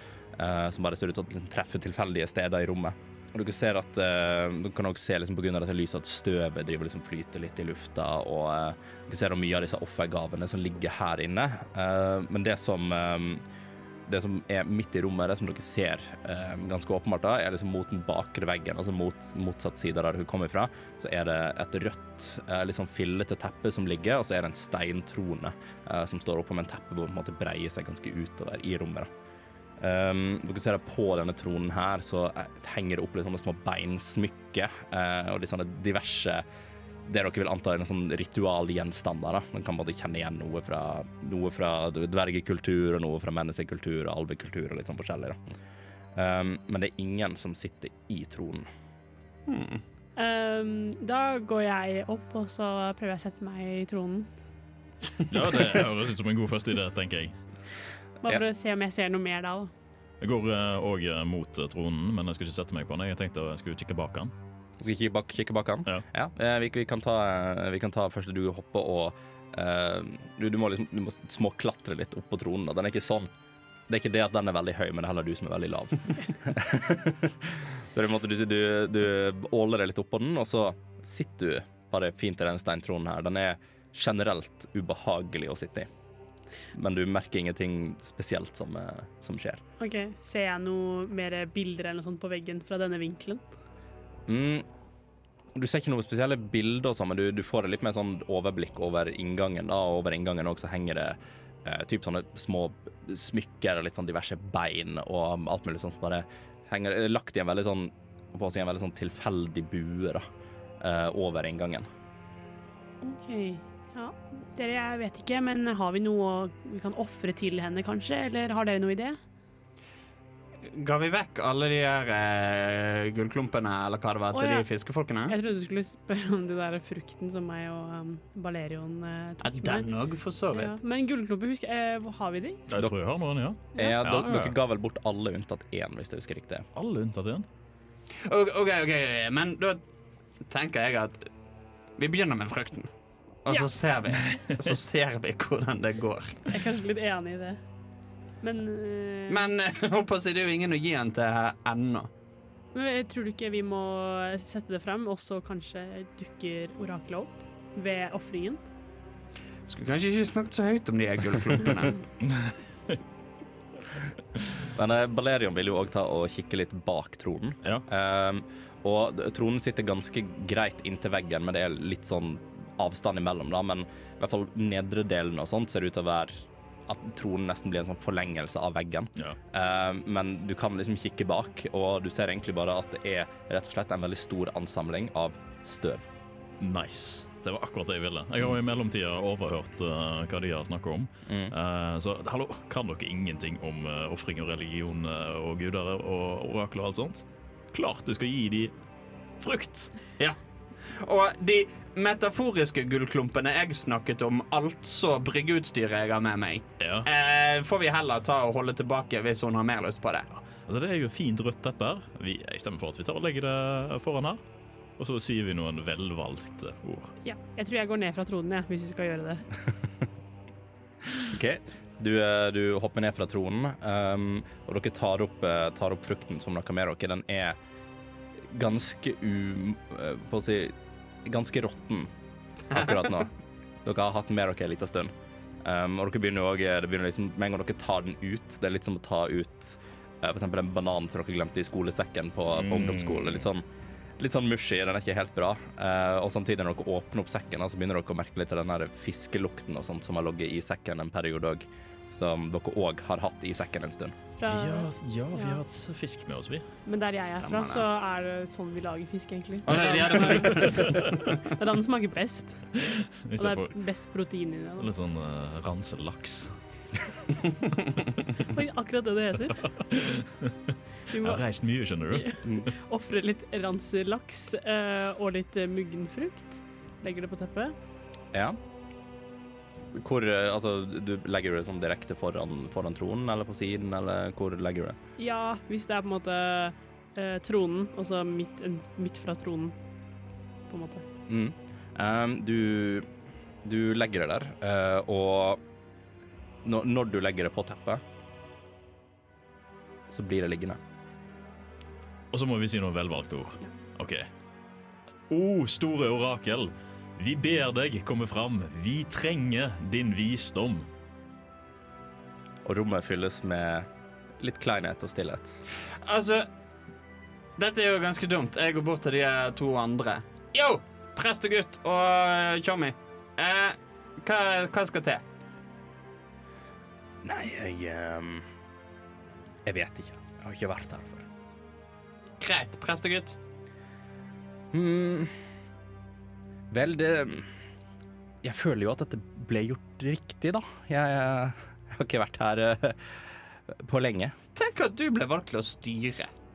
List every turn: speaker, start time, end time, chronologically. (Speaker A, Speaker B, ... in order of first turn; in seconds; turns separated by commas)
Speaker A: 0.3-13.4, Speaker A: 14.1-29.1, Speaker A: 29.8-36.4, Speaker A: 37.0-45.4, Speaker A: 46.1-48.7, Speaker B: 49.5-49.8, Speaker C: 50.1-54.3, Speaker D: 55.3-57.3, Speaker C: 58.2-59.7, Speaker D: 60.2-64.3, Speaker A: 64.8-73.3, Speaker A: 73.9-85.9, Speaker A: 86.7-89.6, Speaker C: 89.8-93.4, Speaker A: 94.3-94.7, Speaker A: 95.5-110.2, Speaker A: 110.8-111.9, Speaker C: 113.0-119.2, Speaker B: 120.7-125.3, Speaker C: 124.3-124.7, Speaker C: 125.3-129.9, Speaker B: 129.4-130.8, Speaker C: 130.5-132.6, Speaker D: 132.7-134.6, Speaker A: 133.7-136.7, Speaker D: 136.7-137.4, Speaker B: 138.2-139.8, Speaker B: 140.5-141.2, Speaker B: 142.0-142.9, Speaker B: 143.4-146.4, Speaker C: 146.5-147.6, Speaker C: 148.4-149.5, Speaker B: 149.3-152.1, Speaker C: 152.7-158.6, Speaker B: 159.7-162.0, Speaker D: 162.2-162.9, Speaker A: 164.7-186.0, Speaker D: 186.6-198.7, Speaker A: 191.3-191.5, Speaker D: 199.4-199.9, Speaker B: 200.2-210.3, Speaker D: 206.8-207.1, Speaker D: 210.6-214.4, Speaker D: 215.0-217.1, Speaker C: 217.2-219.4, Speaker A: 221.2-227.6, Speaker A: 228.5-232.1, Speaker A: 232.7-233.3, Speaker A: 233.8-235.1, Speaker A: 235.6-243.7, Speaker D: 242.5-243.4, Speaker A: 244.2-254.1, Speaker C: 254.4-255.6, Speaker D: 254.4-256.6, Speaker C: 256.9-262.6, Speaker B: 257.2-257.9, Speaker B: 259.6-261.4, Speaker D: 260.2-261.1, Speaker D: 262.8-263.7, Speaker C: 263.4-264.9, Speaker D: 264.8-266.5, Speaker C: 268.4-269.7, Speaker D: 269.8-272.4, Speaker C: 271.1-271.4, Speaker C: 272.1-277.8, Speaker A: 272.4-272.7, Speaker A: 278.3-278.6, Speaker A: 279.9-285.0, Speaker C: 285.2-289.8, Speaker C: 290.7-291.0, Speaker A: 291.3-293.1, Speaker A: 293.6-295.6, Speaker A: 296.6-298.0, Speaker A: 300.1-300.8, Speaker D: 302.3-304.3, Speaker D: 305.3-310.9, Speaker A: 312.6-313.9, Speaker A: 314.4-315.6, Speaker B: 315.9-316.5, Speaker B: 317.6-325.2, Speaker A: 327.2-328.4, Speaker A: 329.6-331.2, Speaker B: 332.4-333.4, Speaker A: 334.7-335.3, Speaker A: 336.7-337.5, Speaker A: 338.4-343.0, Speaker A: 343.7-344.4, Speaker B: 344.5-346.3